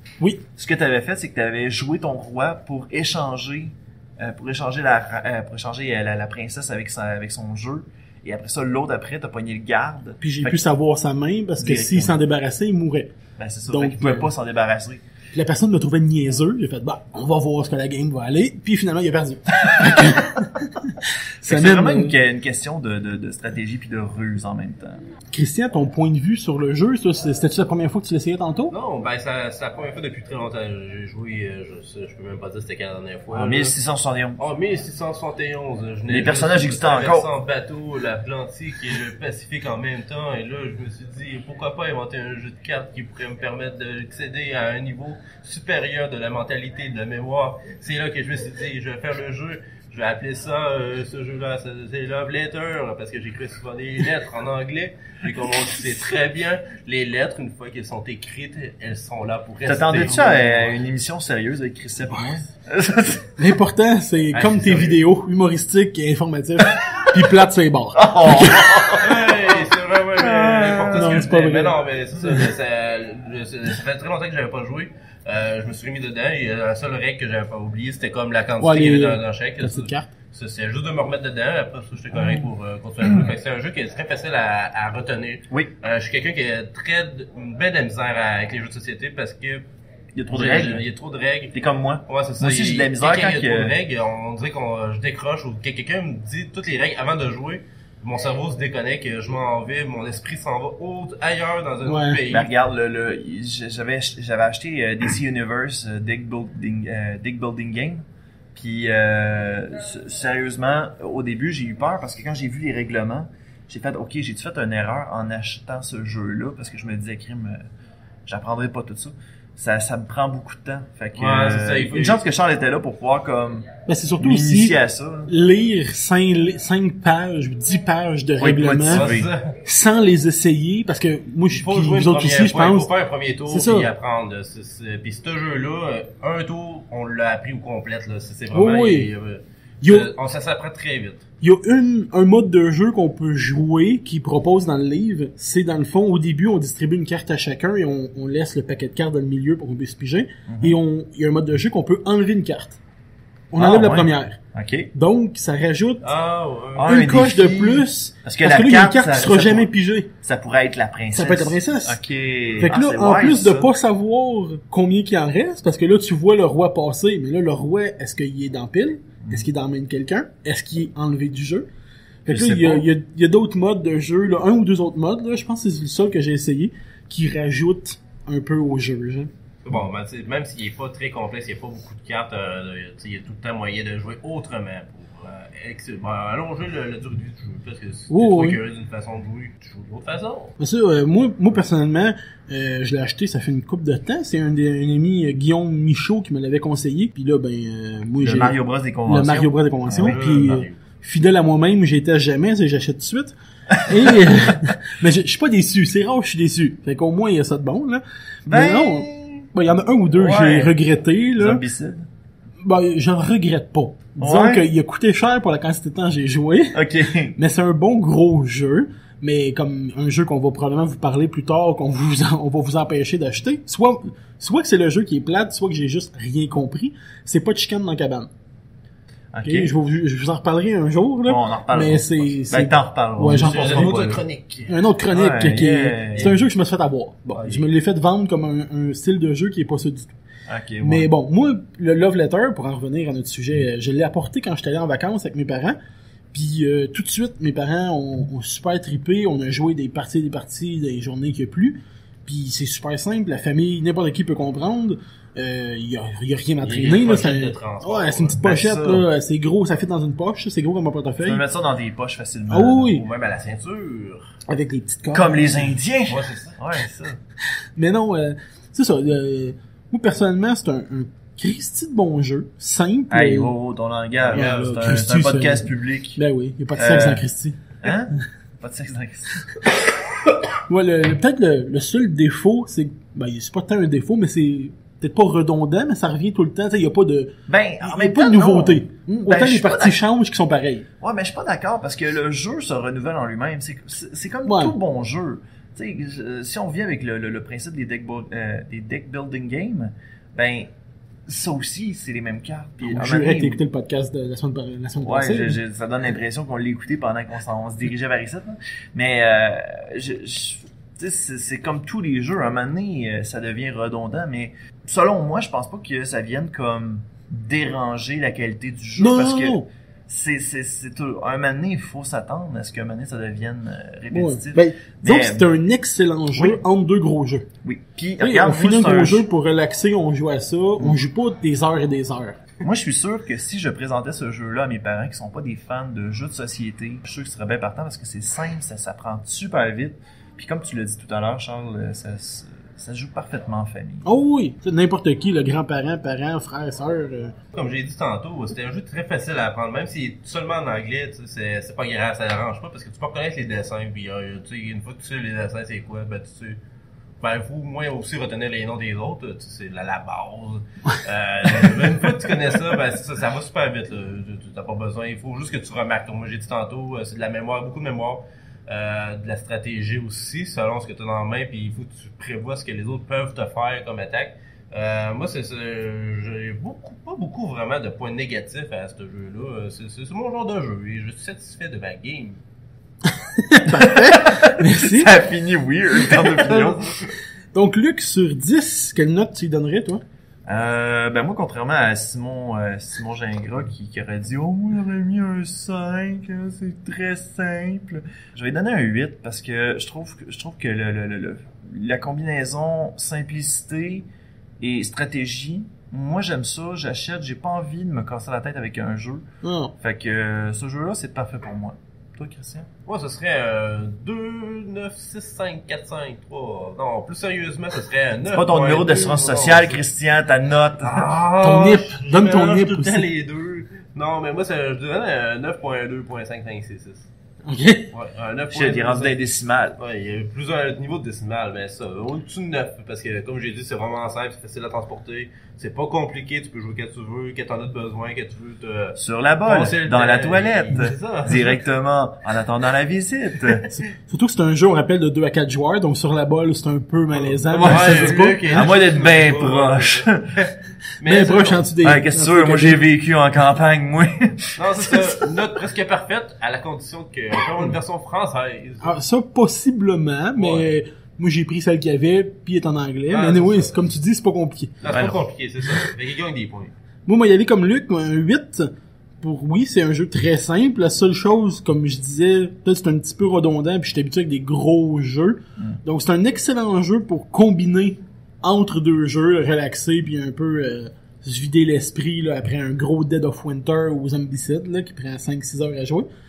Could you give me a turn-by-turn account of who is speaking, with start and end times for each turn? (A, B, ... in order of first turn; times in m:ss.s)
0:00.5-0:10.6 A
0:10.2-0:13.1 B
0:11.6-0:12.2 A
0:13.4-0:15.0 A
0:13.7-0:14.3 B
0:15.3-0:22.1 B
0:19.7-0:20.2 A
0:21.4-0:25.0 A
0:25.3-0:28.7 B
0:28.7-0:33.7 C
0:33.3-0:34.4 A
0:34.4-1:00.7 C
0:36.1-0:37.3 A
0:59.6-1:03.3 A
1:03.4-1:08.7 B
1:04.3-1:05.0 C
1:07.9-1:09.6 A
1:09.0-1:29.6 C
1:10.2-1:11.2 A
1:10.9-1:11.8 B
1:18.6-1:20.1 B
1:30.1-1:30.8 A
1:30.3-1:31.5 C
1:31.5-1:33.8 A
1:32.1-1:42.5 C
1:41.8-1:42.2 B
1:42.3-1:57.6 A
1:58.2-2:03.7 A
2:01.2-2:02.2 C
2:03.8-2:09.1 B
2:04.2-2:05.3 A
2:08.4-2:09.3 A
2:08.9-2:09.5 C
2:09.6-2:12.9 B
2:11.5-2:21.2 C
2:13.5-2:13.9 B
2:18.5-2:19.1 B
2:19.8-2:20.1 B
2:21.4-2:32.8 B
2:30.5-2:30.8 A
2:33.5-2:34.4 B
2:33.6-2:34.9 A
2:34.9-2:36.1 B
2:36.0-2:36.9 C
2:36.7-2:39.7 A
2:36.8-2:40.1 B
2:40.2-2:43.7 A
2:41.1-2:42.0 B
2:42.6-2:51.7 B
2:52.2-2:59.3 B
2:52.3-2:52.9 A
2:59.6-3:10.5 C
3:08.1-3:08.6 B
3:10.6-3:31.6 B
3:18.2-3:20.2 A
3:20.0-3:20.8 C
3:23.7-3:24.1 A
3:28.5-3:29.5 A
3:30.1-3:30.8 A
3:31.4-3:32.1 A
3:32.6-3:36.8 B
3:34.2-3:34.6 A
3:36.7-3:37.4 A
3:37.3-3:48.3 B
3:49.3-3:49.7 A
3:49.4-3:54.0 B
3:51.2-3:54.2 A
3:53.3-3:54.8 C
3:54.7-4:00.1 B
3:55.1-3:56.3 A
3:57.4-3:57.6 C
4:00.5-4:01.1 A
4:00.8-4:05.8 B
4:06.3-4:21.4 B
4:16.6-4:18.4 C
4:18.4-4:19.0 A
4:21.2-4:23.0 A
4:22.5-4:23.0 B
4:22.9-4:24.3 C
4:24.5-4:25.7 B
4:25.1-4:27.2 A
4:26.1-4:26.6 C
4:27.8-4:33.5 B
4:33.1-4:36.2 A
4:34.3-4:34.7 C
4:34.3-4:37.6 B
4:36.7-4:37.2 A
4:37.8-4:39.5 A
4:40.7-4:50.9 B
4:47.5-4:50.0 A
4:51.0-5:00.7 A
4:54.4-4:54.7 B
5:01.2-5:03.6 A
5:02.8-5:05.6 B
5:05.0-5:25.5 A
5:19.0-5:19.7 B
5:24.1-5:27.5 B
5:26.3-5:26.6 A
5:27.6-5:29.2 A
5:28.2-5:32.4 B
5:32.6-5:44.0 A
5:44.0-5:47.3 B
5:47.5-5:56.6 C
5:57.2-6:22.4 C
6:23.2-6:25.1 B
6:23.7-6:27.0 A
6:26.1-6:26.6 B
6:26.5-6:26.8 C
6:27.5-6:30.0 B
6:30.5-6:44.1 A
6:44.6-6:49.2 A
6:49.4-6:49.7 B
6:49.8-6:52.7 A
6:52.8-6:59.8 C
6:58.3-7:01.1 A
7:00.8-7:07.1 C
7:01.4-7:03.1 B
7:07.4-7:07.9 B
7:07.9-7:09.2 C
7:08.5-7:09.8 A
7:09.8-7:21.6 C
7:19.0-7:23.7 A
7:23.7-7:28.7 B
7:27.5-7:31.7 C
7:27.5-7:30.4 A
7:31.0-7:32.8 B
7:31.8-7:35.3 A
7:34.6-7:39.0 C
7:38.8-7:44.8 B
7:40.4-7:40.7 C
7:43.1-7:43.7 C
7:44.8-7:46.7 C
7:44.9-7:45.2 A
7:47.0-8:06.1 B